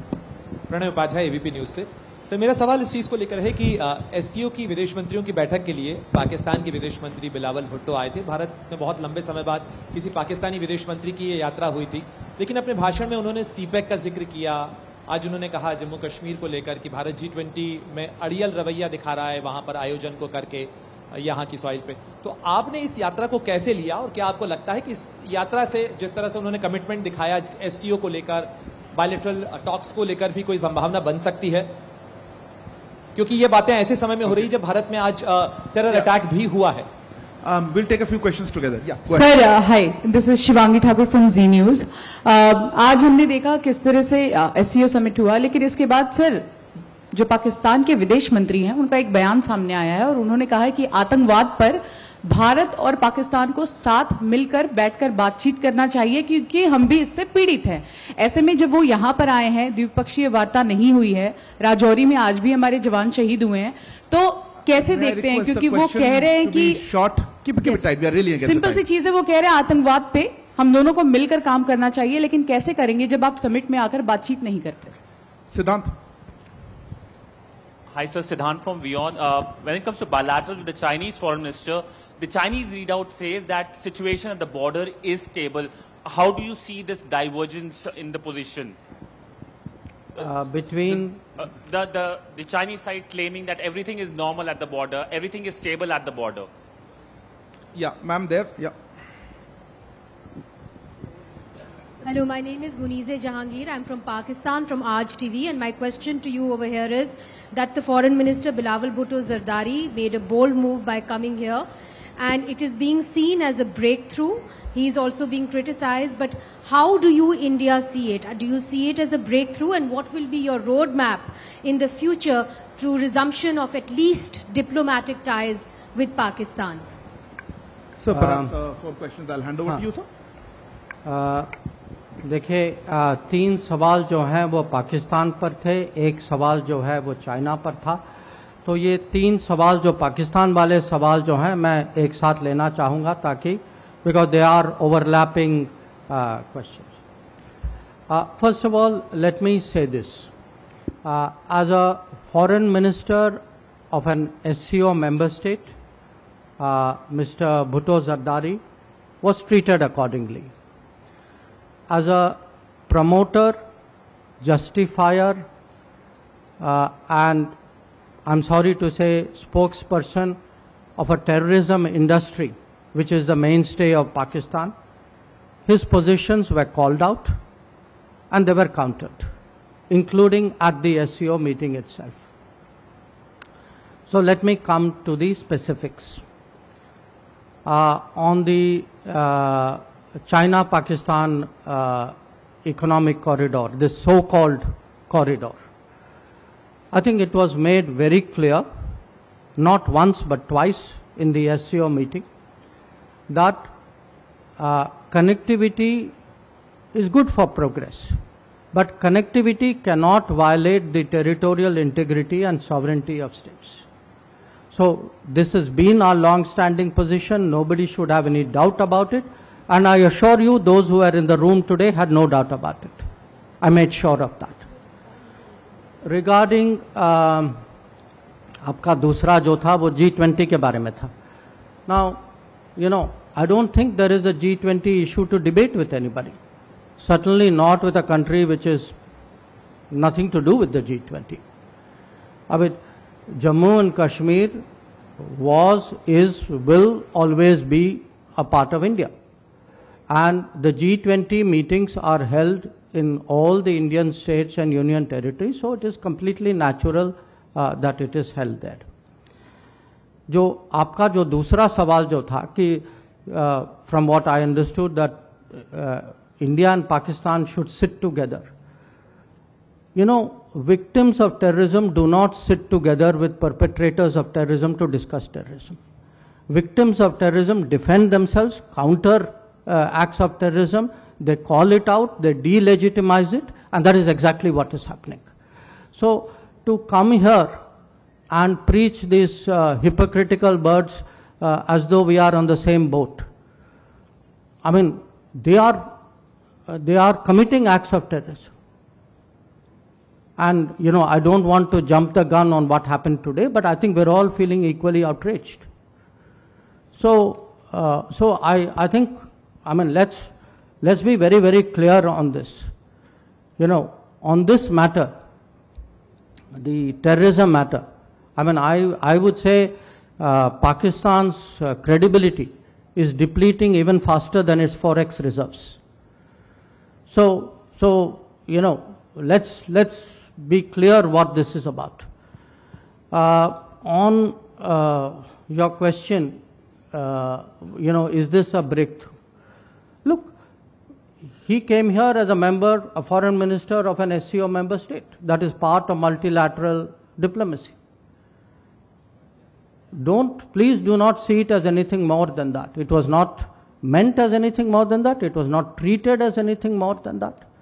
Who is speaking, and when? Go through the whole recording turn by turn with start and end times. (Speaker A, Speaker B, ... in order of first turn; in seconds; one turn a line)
Speaker A: 0.5-31.8
Speaker A: 33.1-36.9
Speaker B: 37.4-39.4
Speaker C: 39.1-46.5
Speaker C: 47.1-66.8
Speaker B: 64.7-68.8
Speaker C: 68.3-74.9
Speaker B: 75.5-76.0
Speaker D: 77.9-88.8
Speaker E: 90.2-91.2
Speaker D: 90.9-96.5
Speaker B: 97.7-98.7
Speaker F: 102.0-111.7
Speaker F: 112.2-126.8
Speaker B: 127.9-130.1
Speaker E: 128.1-128.5
Speaker E: 131.0-131.5
Speaker E: 132.2-138.0
Speaker E: 138.6-146.9
Speaker E: 148.1-150.3
Speaker E: 151.0-155.7
Speaker E: 156.6-158.6
Speaker E: 159.2-160.5
Speaker E: 161.9-163.6
Speaker E: 164.4-165.4
Speaker E: 166.6-167.5
Speaker E: 168.2-170.4
Speaker E: 171.0-174.7
Speaker E: 175.7-177.4
Speaker E: 178.3-179.3
Speaker E: 179.9-182.2
Speaker E: 184.1-186.2
Speaker E: 187.6-195.6
Speaker E: 196.9-198.7
Speaker E: 199.6-202.2
Speaker E: 203.3-203.7
Speaker E: 204.6-206.1
Speaker E: 206.9-208.2
Speaker E: 208.7-213.8
Speaker E: 214.7-223.0
Speaker E: 223.6-224.6
Speaker E: 226.0-227.6
Speaker E: 228.6-231.1
Speaker E: 231.9-232.2
Speaker E: 232.8-236.4
Speaker E: 237.0-238.9
Speaker E: 239.9-241.4
Speaker E: 242.5-244.6
Speaker E: 245.2-249.1
Speaker E: 250.1-258.9
Speaker E: 260.3-268.5
Speaker E: 269.9-275.8
Speaker E: 276.5-285.2
Speaker E: 285.9-287.6
Speaker E: 288.3-293.3
Speaker E: 294.6-295.9
Speaker E: 296.7-298.5
Speaker E: 300.4-305.6
Speaker E: 306.9-310.3
Speaker E: 310.8-312.7
Speaker E: 313.6-315.2
Speaker E: 316.5-325.8
Speaker E: 327.1-332.1
Speaker E: 333.1-336.4
Speaker E: 336.9-339.1
Speaker E: 340.0-340.3
Speaker E: 341.4-347.7
Speaker E: 349.9-357.4